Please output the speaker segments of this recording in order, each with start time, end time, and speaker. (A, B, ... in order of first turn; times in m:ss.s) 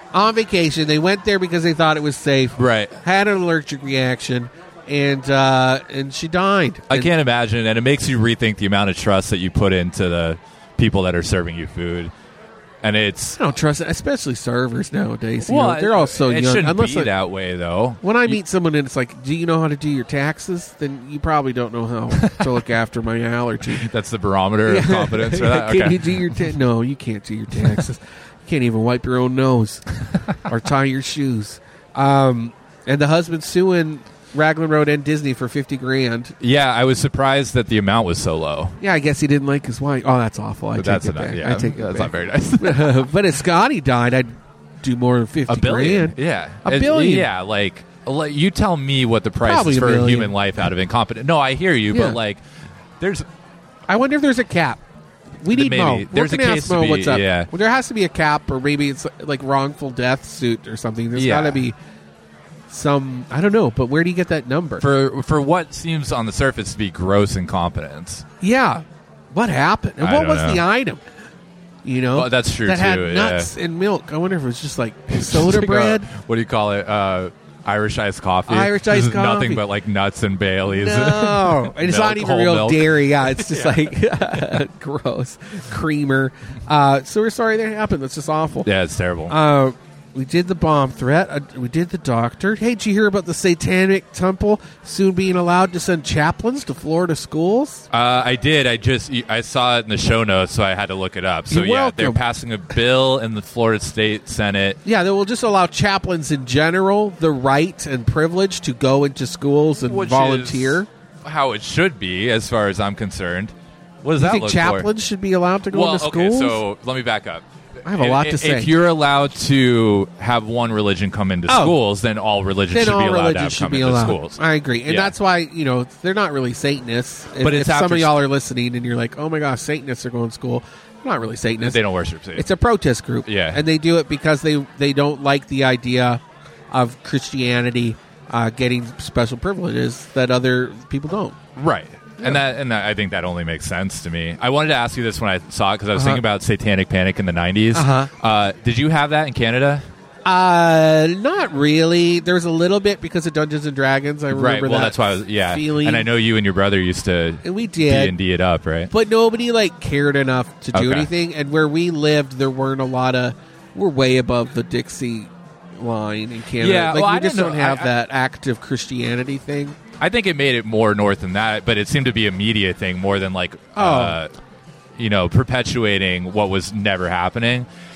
0:00.1-0:07.1 A
0:02.6-0:03.0 B
0:06.9-0:12.1 B
0:12.8-0:13.4 B
0:13.4-0:17.1 A
0:15.4-0:18.4 B
0:18.0-0:23.9 A
0:22.2-0:22.5 B
0:23.8-0:26.5 B
0:24.7-0:36.3 A
0:36.4-0:38.8 B
0:38.8-0:47.3 A
0:40.8-0:43.1 B
0:45.5-0:52.4 B
0:49.4-0:50.3 A
0:51.9-0:52.2 A
0:53.0-0:53.3 B
0:53.9-0:54.8 A
0:55.4-1:01.8 A
0:55.5-0:57.5 B
1:01.2-1:01.6 B
1:02.7-1:04.8 A
1:04.8-1:08.2 B
1:08.4-1:11.0 A
1:10.0-1:10.6 B
1:11.8-1:16.1 A
1:12.2-1:13.5 B
1:15.1-1:23.9 B
1:18.5-1:19.6 A
1:20.7-1:28.7 A
1:28.6-1:29.4 B
1:29.3-1:37.9 A
1:37.9-1:44.8 B
1:41.5-1:42.2 A
1:44.8-1:50.9 A
1:49.9-1:54.9 B
1:54.2-1:56.6 A
1:55.7-2:05.1 B
1:57.8-1:58.7 A
2:01.5-2:01.8 A
2:02.7-2:11.8 A
2:07.4-2:08.2 B
2:11.6-2:12.5 B
2:12.4-2:21.4 A
2:13.2-2:13.6 B
2:21.6-2:29.8 B
2:26.0-2:26.2 A
2:27.7-2:28.1 A
2:30.3-2:36.1 A
2:34.3-2:38.9 B
2:37.4-2:38.1 A
2:38.9-2:49.8 A
2:40.7-2:41.1 B
2:46.6-2:47.9 B
2:50.0-2:54.3 B
2:53.8-2:54.2 A
2:55.0-2:57.7 B